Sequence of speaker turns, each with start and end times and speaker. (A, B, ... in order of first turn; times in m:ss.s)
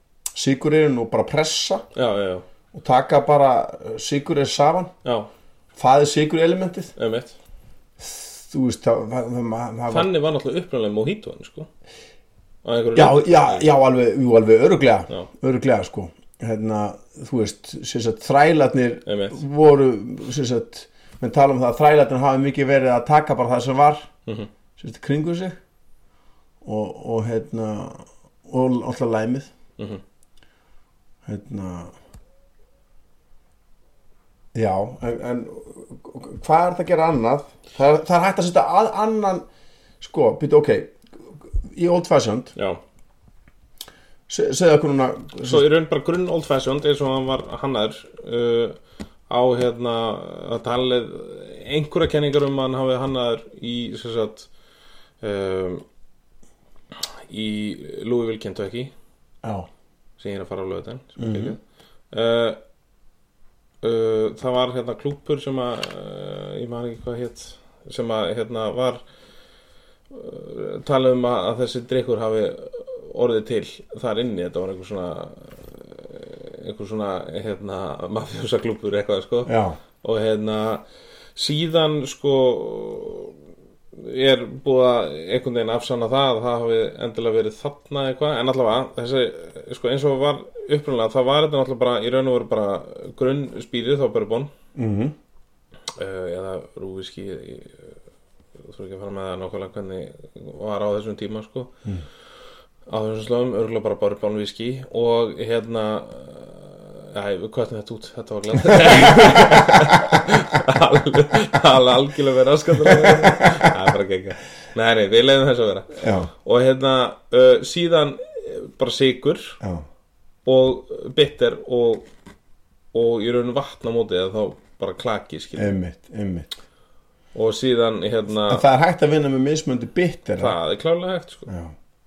0:00.4-0:01.8 A
0:02.0-0:02.4 B
0:02.7-0:04.9 A
0:05.8-0:06.9 A
0:07.0-0:07.4 B
0:08.0-0:10.1 A
0:09.9-0:11.7 B
0:12.6-0:13.7 B
0:13.0-0:24.1 A
0:19.1-0:19.4 B
0:24.8-0:25.6 A
0:26.6-0:29.5 A
0:31.2-0:31.9 A
0:34.5-0:39.5 A
0:40.0-0:42.5 A
0:42.6-0:42.8 B
0:44.3-0:45.7 A
0:45.4-0:48.8 B
0:49.3-0:54.5 B
0:55.2-0:55.8 B
0:57.3-0:58.9 B
0:59.4-0:59.7 A
1:00.2-1:01.6 B
1:01.2-1:01.6 A
1:02.1-1:02.6 B
1:03.8-1:09.0 B
1:10.1-1:20.8 B
1:19.5-1:19.8 A
1:21.4-1:23.4 B
1:24.0-1:34.5 B
1:34.8-1:35.1 A
1:36.0-1:38.0 B
1:38.6-1:41.7 B
1:42.9-1:59.6 B
1:48.7-1:50.2 A
1:52.8-1:53.8 A
1:56.0-1:56.3 A
2:00.4-2:02.1 B
2:02.9-2:05.7 B
2:05.6-2:06.5 A
2:07.3-2:08.6 B
2:08.5-2:10.6 A
2:10.4-2:11.5 B
2:11.5-2:11.7 A